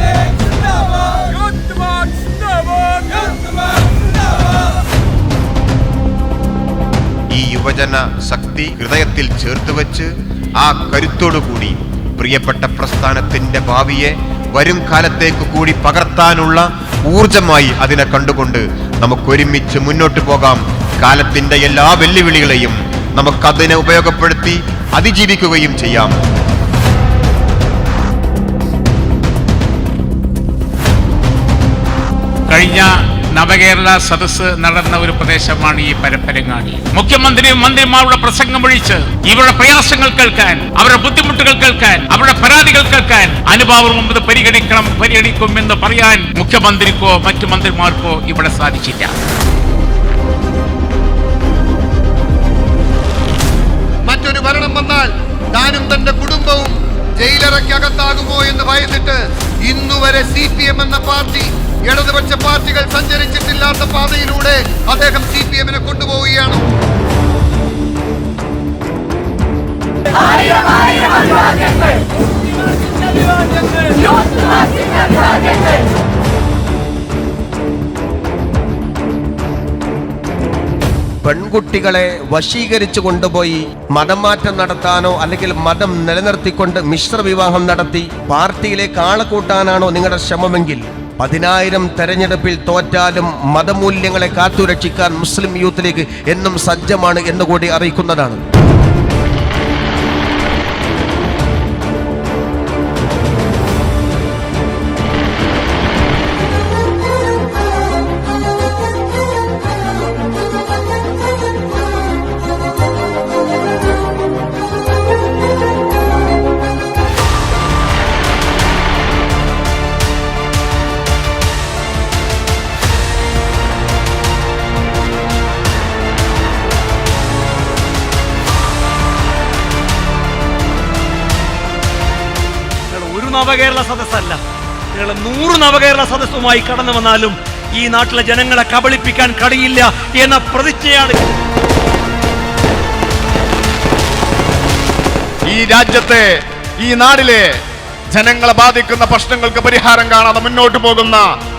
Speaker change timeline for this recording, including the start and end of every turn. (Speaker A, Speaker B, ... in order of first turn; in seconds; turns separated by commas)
Speaker A: 0.4-3.5, Speaker B: 7.3-26.2, Speaker C: 32.5-49.1, Speaker D: 54.1-66.7, Speaker E: 81.2-98.4, Speaker A: 132.9-134.4, Speaker A: 134.9-141.3, Speaker F: 145.5-147.4, Speaker F: 148.1-151.2